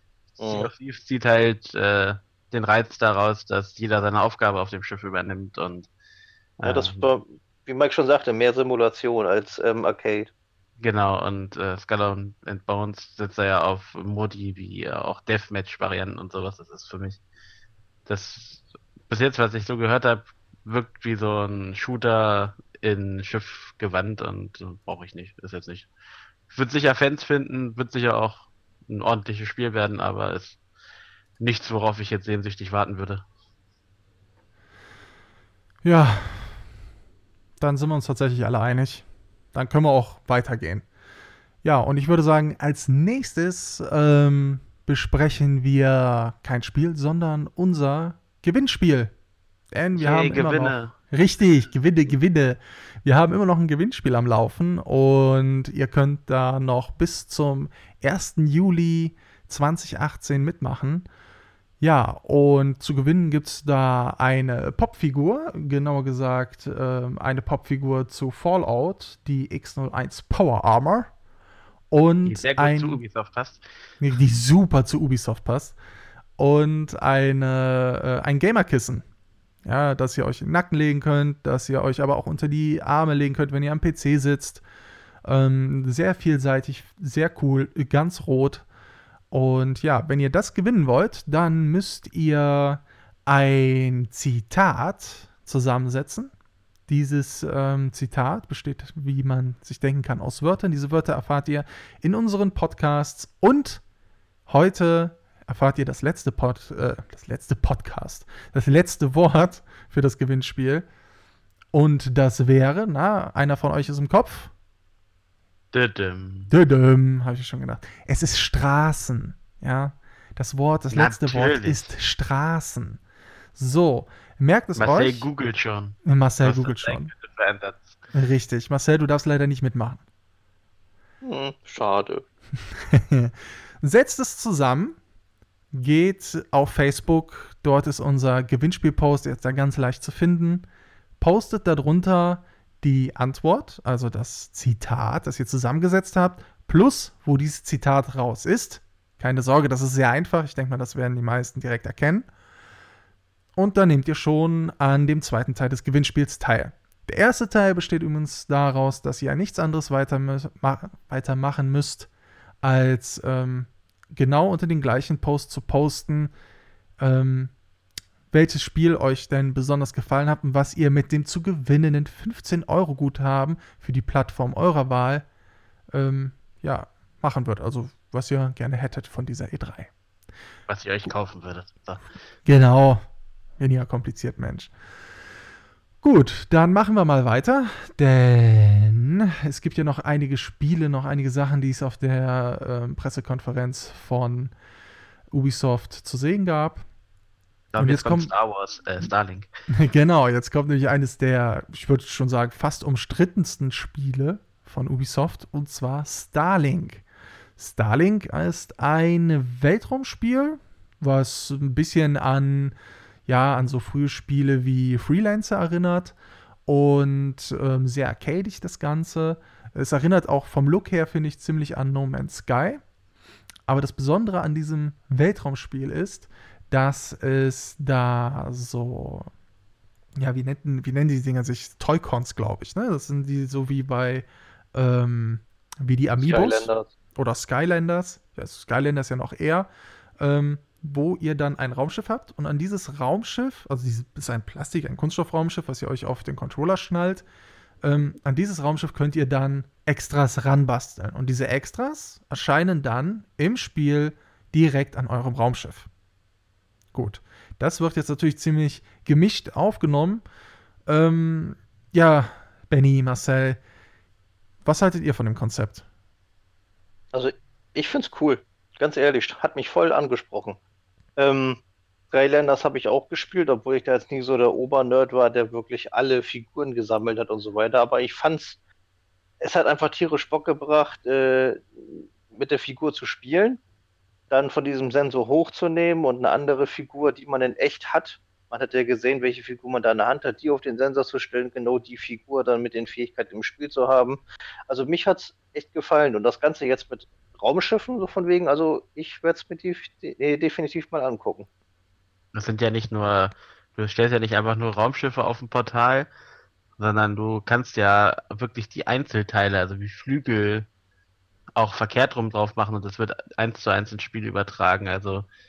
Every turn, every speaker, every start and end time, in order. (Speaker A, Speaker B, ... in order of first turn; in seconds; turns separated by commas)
Speaker A: 0.4-0.7, Speaker B: 0.4-5.9, Speaker B: 6.6-7.1, Speaker A: 6.6-10.3, Speaker B: 10.8-17.2, Speaker B: 18.1-25.9, Speaker B: 26.5-30.6, Speaker B: 31.4-33.2, Speaker C: 35.8-36.6, Speaker C: 37.6-40.9, Speaker C: 41.6-49.1, Speaker C: 49.7-61.0, Speaker B: 50.0-50.9, Speaker C: 61.8-71.1, Speaker C: 71.9-73.0, Speaker B: 72.2-73.6, Speaker C: 74.0-75.7, Speaker C: 76.4-79.0, Speaker C: 79.6-84.6, Speaker C: 85.2-88.7, Speaker C: 89.3-96.3, Speaker C: 96.9-103.8, Speaker C: 104.5-110.8, Speaker C: 111.7-114.5, Speaker B: 115.7-116.5, Speaker C: 116.5-123.0, Speaker B: 120.9-121.9, Speaker C: 123.5-125.3, Speaker B: 124.8-127.9, Speaker C: 126.0-127.1, Speaker C: 128.1-130.0, Speaker A: 131.2-132.2, Speaker C: 132.7-135.0, Speaker C: 135.7-140.7, Speaker C: 141.2-152.3, Speaker C: 153.6-162.1, Speaker C: 162.6-166.3, Speaker C: 167.0-167.5, Speaker C: 168.3-175.2, Speaker C: 175.9-179.9, Speaker B: 180.7-182.0, Speaker C: 182.4-183.0, Speaker C: 183.6-184.7, Speaker C: 186.0-194.5, Speaker C: 195.3-196.8, Speaker B: 197.7-199.5, Speaker C: 197.8-198.3, Speaker C: 199.7-207.0, Speaker C: 207.6-212.7, Speaker C: 213.3-216.1, Speaker C: 216.7-222.8, Speaker C: 223.7-229.3, Speaker C: 230.2-239.7, Speaker A: 236.2-236.9, Speaker C: 240.2-247.2, Speaker C: 247.8-255.9, Speaker C: 256.9-260.2, Speaker C: 260.9-263.6, Speaker C: 264.6-265.9, Speaker A: 267.1-270.6, Speaker A: 271.2-271.6, Speaker A: 272.1-278.6, Speaker A: 279.4-283.6, Speaker A: 284.3-301.5, Speaker B: 302.3-306.1, Speaker B: 306.8-310.7, Speaker B: 311.6-315.3